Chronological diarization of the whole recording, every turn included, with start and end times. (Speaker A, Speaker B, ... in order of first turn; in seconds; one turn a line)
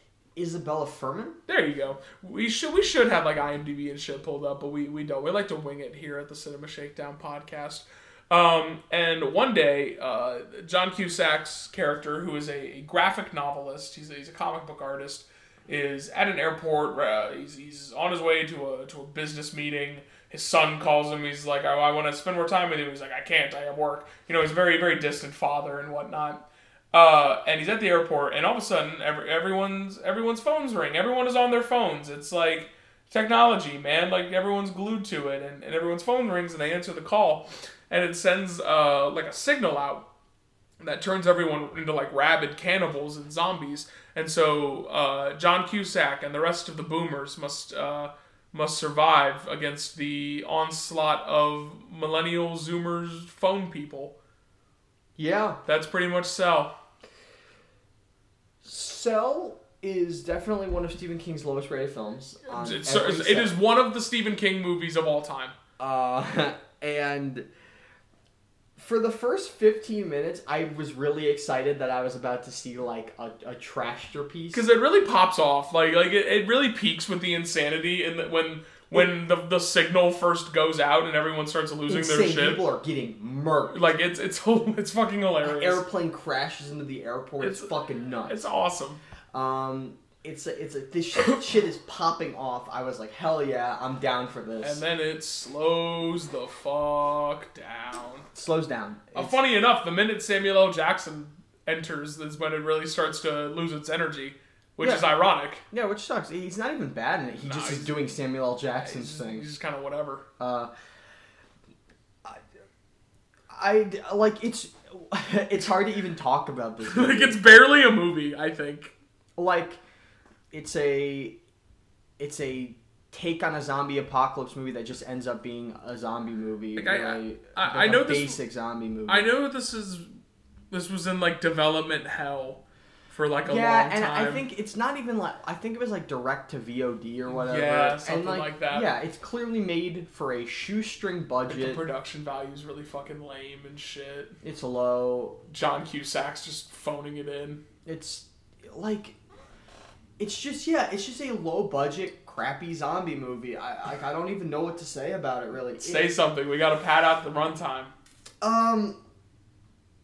Speaker A: 0.3-1.4
Speaker B: 1.5-40.0
Speaker B: 40.8-54.1
Speaker A: 55.1-55.6
Speaker B: 55.6-56.7
Speaker A: 58.6-63.6
Speaker B: 62.5-65.5
Speaker A: 65.8-67.5
Speaker A: 68.8-74.6
Speaker B: 74.5-82.6
Speaker A: 81.9-83.9
Speaker B: 83.7-85.8
Speaker A: 85.4-88.5
Speaker B: 87.4-87.7
Speaker B: 88.3-89.0
Speaker A: 89.3-94.8
Speaker B: 94.6-98.3
Speaker A: 98.3-99.4
Speaker B: 99.1-105.6
Speaker A: 104.8-105.1
Speaker A: 105.7-109.5
Speaker B: 107.4-108.0
Speaker B: 108.8-110.2
Speaker A: 110.4-110.7
Speaker A: 113.5-117.4
Speaker B: 116.8-118.9
Speaker A: 119.4-119.8
Speaker A: 120.5-121.4
Speaker A: 122.2-129.3
Speaker B: 126.8-128.4
Speaker B: 129.1-130.1
Speaker B: 130.7-134.4
Speaker A: 133.4-141.8
Speaker B: 137.3-138.9
Speaker B: 141.5-144.3
Speaker A: 144.4-145.4
Speaker B: 145.5-147.6
Speaker A: 147.8-149.2
Speaker A: 150.2-156.1
Speaker B: 155.8-157.9
Speaker A: 158.4-159.0